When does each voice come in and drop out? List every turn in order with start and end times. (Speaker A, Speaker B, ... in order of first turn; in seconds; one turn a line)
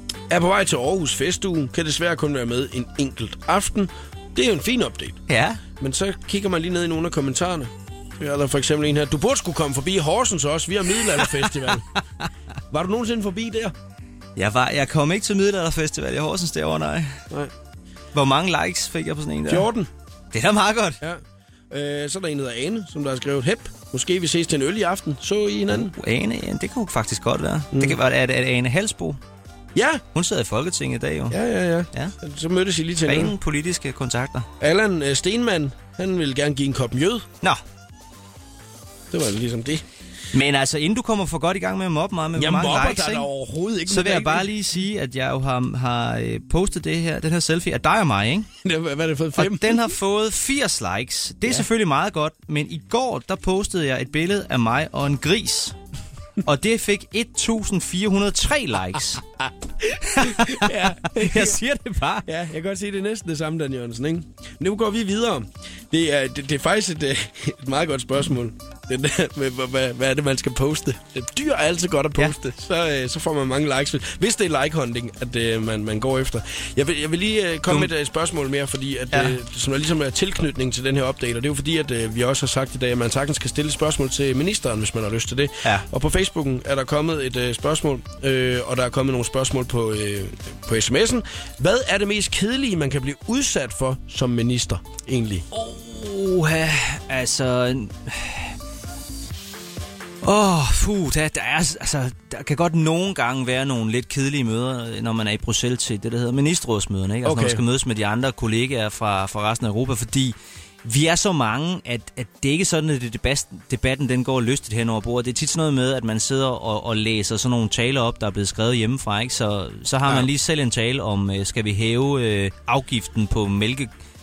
Speaker A: 0.3-5.2
Speaker B: 5.3-5.6
Speaker A: 5.8-11.8
Speaker A: 12.7-13.7
Speaker B: 14.3-17.2
Speaker B: 18.1-19.7
Speaker A: 19.5-19.9
Speaker B: 20.3-21.0
Speaker A: 21.0-25.9
Speaker B: 25.7-29.2
Speaker A: 27.7-28.0
Speaker A: 29.7-30.0
Speaker B: 30.1-31.4
Speaker A: 31.3-33.3
Speaker B: 33.0-34.5
Speaker A: 34.6-37.2
Speaker A: 39.1-39.8
Speaker B: 40.3-43.3
Speaker A: 42.4-44.5
Speaker B: 43.9-48.5
Speaker A: 48.6-49.8
Speaker B: 49.4-55.8
Speaker B: 56.4-59.2
Speaker A: 59.8-61.6
Speaker B: 60.0-62.3
Speaker A: 62.2-95.4
Speaker B: 79.1-79.4
Speaker B: 95.5-98.5
Speaker B: 100.2-123.9
Speaker A: 107.2-107.6